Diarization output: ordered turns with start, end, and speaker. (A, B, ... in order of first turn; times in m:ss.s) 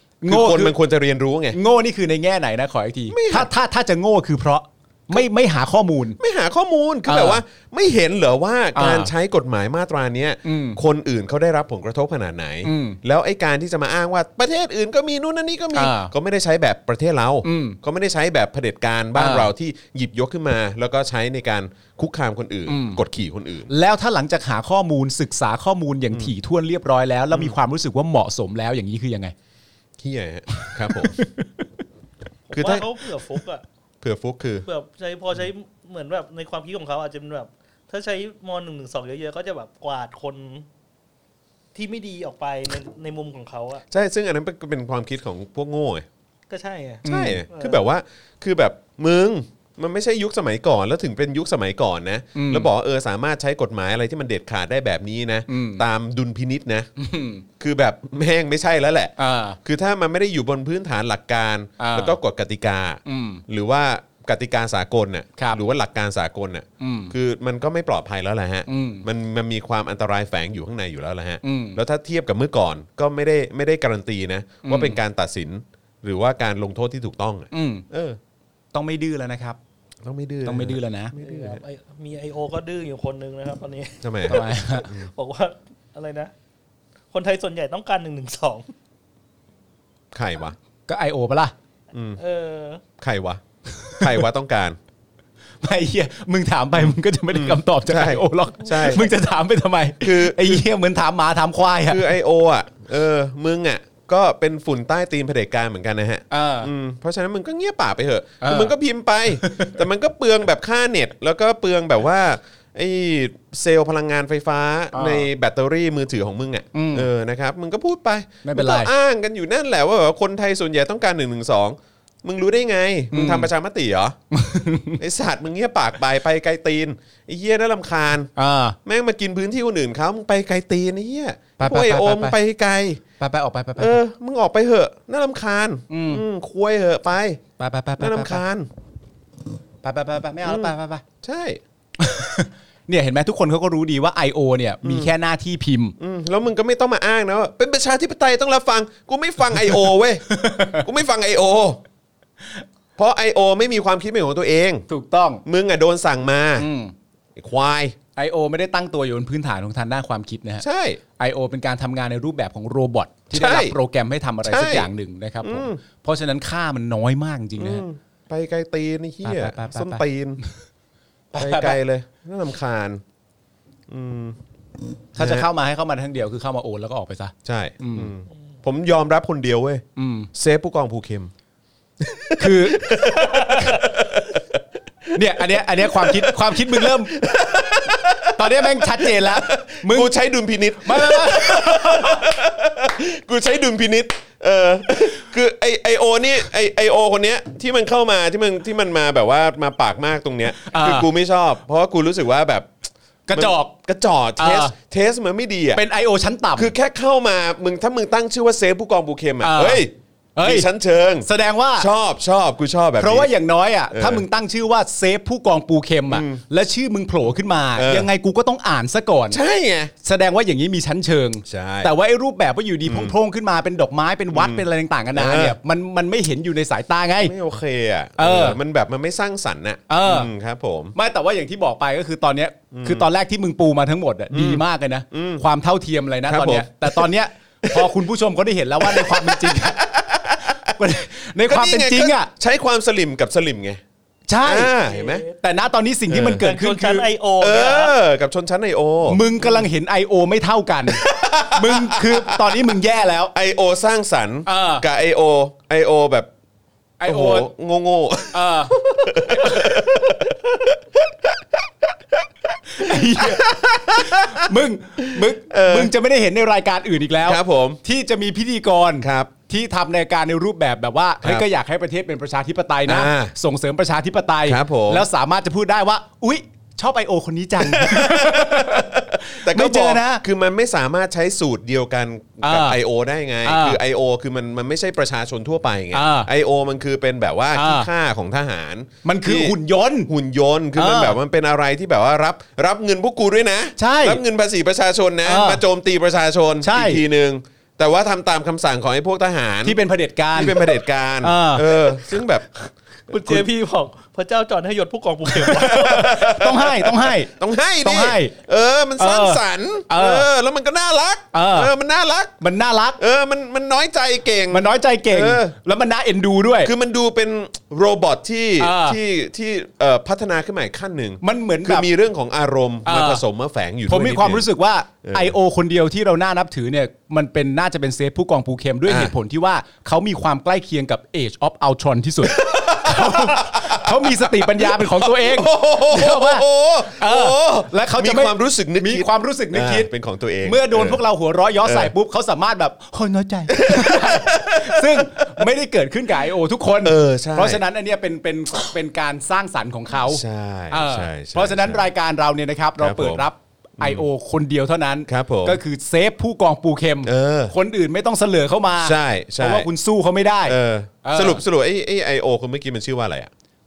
0:00.2-0:00.8 A
0:00.3-0:01.6 B
0:01.5-0:06.2 A
0:03.1-0:03.5 B
0:06.2-0:23.7 B
0:07.1-0:07.4 A
0:08.8-0:09.1 A
0:10.4-0:10.8 A
0:12.6-0:13.0 A
0:15.8-0:16.1 A
0:17.4-0:17.8 A
0:19.2-0:19.5 A
0:22.7-0:23.0 A
0:23.7-0:29.3 A
0:27.3-0:27.6 B
0:30.0-0:31.3 B
0:30.5-0:31.5 A
0:32.5-0:33.6 C
0:32.5-0:32.9 B
0:34.0-0:34.7 B
0:34.6-0:40.7 C
0:41.8-0:43.8 C
0:43.9-0:46.1 B
0:46.5-0:47.8 C
0:47.0-0:47.4 A
0:47.0-0:56.9 B
0:52.4-0:52.7 A
0:55.5-0:55.8 A
0:57.0-0:57.4 A
0:57.6-1:18.2 B
0:59.2-0:59.6 A
1:01.8-1:02.2 A
1:03.0-1:03.4 A
1:06.8-1:07.1 A
1:08.7-1:09.0 A
1:11.4-1:11.8 A
1:14.6-1:15.0 A
1:17.5-1:17.9 A
1:18.7-1:19.6 A
1:20.0-1:21.6 B
1:20.4-1:21.1 A
1:21.2-1:26.3 C
1:24.0-1:25.1 B
1:24.3-1:24.9 A
1:27.1-1:28.7 C
1:30.1-1:30.6 B
1:30.9-1:31.5 A
1:31.9-1:32.2 B
1:32.2-1:32.8 C
1:33.0-1:34.8 B
1:33.8-1:34.2 A
1:35.6-1:42.1 A
1:36.8-1:39.1 B
1:40.0-1:40.6 B
1:41.9-2:04.2 B
1:46.3-1:46.7 A
1:48.4-1:48.7 A
1:49.4-1:49.8 A
1:54.9-1:55.3 A
1:56.7-1:57.1 A
1:58.4-1:58.9 A
2:03.1-2:03.5 A
2:04.3-2:05.0 A
2:05.0-2:08.3 B
2:08.4-2:08.8 A
2:08.8-2:13.0 B
2:11.6-2:12.4 A
2:13.2-2:14.0 A
2:13.8-2:17.4 B
2:15.9-2:16.2 A
2:17.6-2:18.4 A
2:18.0-2:18.7 B
2:19.8-2:21.0 A
2:20.4-2:21.6 B
2:22.0-2:26.0 A
2:24.8-2:25.1 B
2:26.0-2:31.8 B
2:30.3-2:30.8 A
2:33.0-2:34.9 B
2:34.9-2:35.4 A
2:35.4-2:36.7 B
2:36.6-2:36.9 A
2:37.4-2:38.0 B
2:38.2-2:40.6 A
2:40.6-2:41.0 B
2:41.2-2:47.8 A
2:43.3-2:43.8 B
2:44.4-2:44.9 B
2:45.4-2:45.8 B
2:47.6-2:50.4 B
2:49.2-2:50.6 A
2:51.3-2:51.8 A
2:51.4-2:53.0 B
2:53.9-2:54.4 B
2:55.2-2:58.1 A
2:55.2-2:55.5 B
2:57.4-3:01.3 B
3:00.0-3:00.3 A
3:02.0-3:22.7 B
3:02.4-3:03.8 A
3:05.1-3:07.2 A
3:08.3-3:10.1 A
3:10.8-3:12.2 A
3:20.6-3:21.1 A
3:23.3-3:23.7 A
3:23.3-3:25.8 B
3:24.4-3:24.7 A
3:25.7-3:26.7 A
3:26.6-3:33.3 B
3:29.4-3:29.8 A
3:30.4-3:30.7 A
3:31.2-3:31.9 A
3:33.0-3:39.4 A
3:33.9-3:34.3 B
3:36.1-3:36.4 B
3:37.8-3:38.1 B
3:39.3-3:39.9 B
3:40.0-3:47.3 A
3:41.5-3:41.9 B
3:42.8-3:43.2 B
3:44.3-3:45.6 B
3:47.2-3:51.0 B
3:48.2-3:48.6 A
3:49.9-3:50.3 A
3:51.0-3:59.9 A
3:52.7-3:53.1 B
3:54.3-3:55.4 B
3:56.3-3:57.1 B
3:57.6-3:58.0 B
3:58.8-4:00.8 B
4:00.4-4:02.3 A
4:01.5-4:03.8 B
4:04.3-4:04.7 A
4:04.4-4:05.2 B
4:04.8-4:05.4 C
4:05.4-4:07.1 A
4:06.1-4:06.4 B
4:06.4-4:08.0 C
4:07.4-4:09.6 B
4:09.0-4:13.3 A
4:10.9-4:12.8 B
4:13.3-4:16.3 B
4:14.5-4:14.9 A
4:17.0-4:17.5 A
4:17.0-4:24.5 B
4:18.3-4:20.1 A
4:22.7-4:40.2 A
4:25.0-4:25.9 B
4:27.2-4:27.8 B
4:29.0-4:29.3 B
4:32.9-4:33.3 B
4:34.4-4:35.1 B
4:37.6-4:49.6 B
4:42.4-4:42.8 A
4:43.4-4:43.8 A
4:45.9-4:46.3 A
4:47.6-4:47.9 A
4:49.0-4:50.1 A
4:50.1-4:59.8 B
4:50.8-4:51.2 A
4:53.8-4:54.2 A
4:55.2-4:55.6 A
4:56.6-4:57.0 A
4:59.6-5:00.7 A
5:00.3-5:02.5 B
5:01.2-5:01.8 A
5:03.1-5:06.2 C
5:03.1-5:03.4 B
5:05.4-5:12.4 B
5:05.5-5:08.3 A
5:09.0-5:10.3 A
5:11.3-5:11.7 A
5:12.4-5:13.0 A
5:13.0-5:15.6 B
5:14.5-5:16.7 A
5:16.6-5:24.5 B
5:18.6-5:19.0 A
5:21.2-5:21.9 A
5:22.9-5:23.2 A
5:23.9-5:39.9 A
5:25.0-5:25.3 B
5:28.9-5:29.1 B
5:32.2-5:41.0 B
5:40.4-6:01.4 A
5:41.6-5:41.9 B
5:43.5-5:45.5 B
5:46.8-5:47.6 B
5:50.1-5:51.9 B
5:52.8-5:53.3 B
5:53.8-5:54.0 B
5:55.1-5:55.6 B
5:57.0-5:57.5 B
5:58.8-5:59.7 B
6:00.4-6:03.3 B